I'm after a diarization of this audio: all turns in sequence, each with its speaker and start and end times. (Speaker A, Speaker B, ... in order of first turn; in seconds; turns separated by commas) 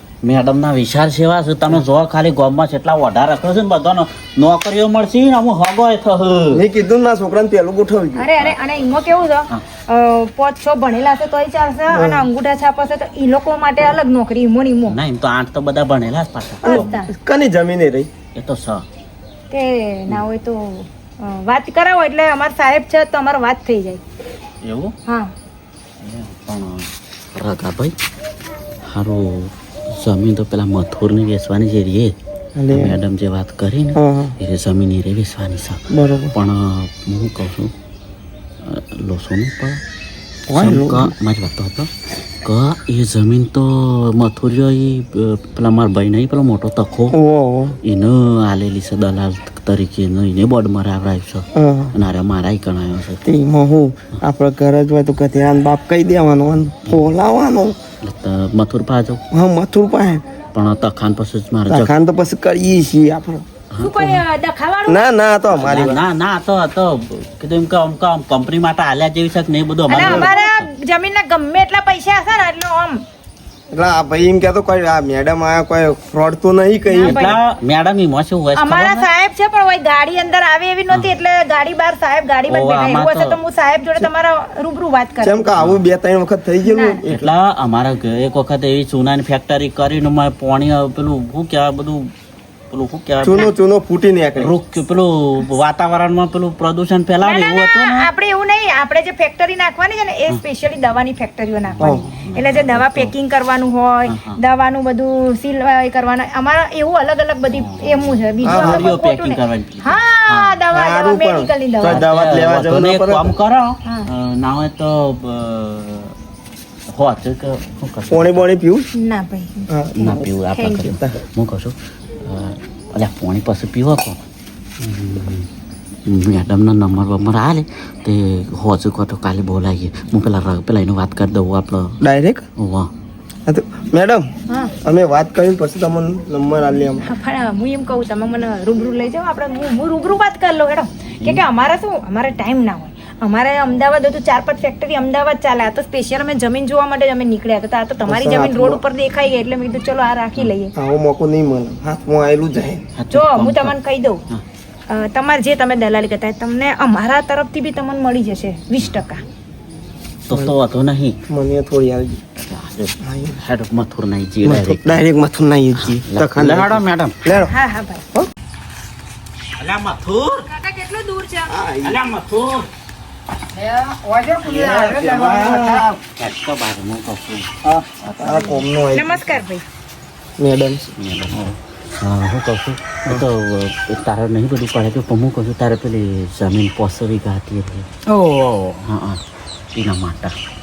Speaker A: 0.2-6.6, Speaker B: 6.5-8.3, Speaker C: 8.2-15.0, Speaker B: 11.9-12.3, Speaker A: 14.9-16.9, Speaker B: 16.6-18.1, Speaker C: 16.6-17.1, Speaker A: 18.4-18.8, Speaker C: 19.5-24.0, Speaker A: 24.6-24.9, Speaker A: 26.0-27.9, Speaker A: 28.9-32.1, Speaker B: 32.6-33.0, Speaker A: 32.7-37.7, Speaker B: 34.0-34.4, Speaker B: 35.9-36.3, Speaker A: 38.6-39.8, Speaker B: 40.5-41.1, Speaker A: 40.5-41.9, Speaker A: 42.4-47.2, Speaker B: 47.1-47.8, Speaker A: 47.8-53.2, Speaker B: 51.5-52.0, Speaker B: 53.2-57.8, Speaker A: 58.0-59.2, Speaker B: 59.3-60.2, Speaker A: 60.5-61.9, Speaker B: 61.7-63.5, Speaker A: 63.7-64.2, Speaker C: 63.8-65.0, Speaker B: 64.9-66.0, Speaker A: 65.5-70.7, Speaker C: 69.9-73.0, Speaker B: 70.0-70.4, Speaker B: 73.7-77.4, Speaker C: 76.9-77.4, Speaker A: 77.0-79.1, Speaker C: 78.5-85.5, Speaker A: 80.9-81.2, Speaker A: 82.5-83.4, Speaker B: 85.2-87.3, Speaker A: 85.6-85.8, Speaker C: 86.7-87.0, Speaker A: 87.1-92.1, Speaker A: 92.7-93.5, Speaker B: 93.2-94.5, Speaker A: 94.4-98.1, Speaker C: 97.2-112.0, Speaker A: 101.7-103.1, Speaker A: 104.1-104.4, Speaker A: 107.5-110.6, Speaker B: 108.5-108.9, Speaker B: 110.7-113.4, Speaker A: 111.8-116.1, Speaker A: 116.9-118.5, Speaker B: 118.1-118.9, Speaker C: 119.0-120.9, Speaker B: 119.7-120.3, Speaker A: 120.0-124.2, Speaker A: 124.8-125.5, Speaker A: 126.1-132.0, Speaker B: 132.0-132.4, Speaker A: 132.6-132.9, Speaker B: 133.5-134.2, Speaker B: 134.8-137.1, Speaker C: 137.0-150.7, Speaker B: 148.1-148.8, Speaker B: 150.8-152.8, Speaker A: 153.0-153.8, Speaker C: 153.1-154.2, Speaker C: 154.9-159.2, Speaker A: 160.3-161.2, Speaker B: 161.3-162.2, Speaker A: 162.4-165.0, Speaker B: 163.0-163.4, Speaker B: 164.4-167.5, Speaker A: 165.8-167.2, Speaker C: 167.4-168.1, Speaker A: 169.6-170.5, Speaker C: 170.5-171.5, Speaker B: 171.5-172.0, Speaker A: 171.8-172.7, Speaker D: 173.6-175.8, Speaker B: 174.5-175.9, Speaker A: 176.0-177.5, Speaker B: 178.2-179.3, Speaker C: 178.2-179.6, Speaker B: 180.4-180.9, Speaker A: 181.0-187.9, Speaker D: 188.1-188.8, Speaker A: 188.9-189.2, Speaker A: 189.8-190.3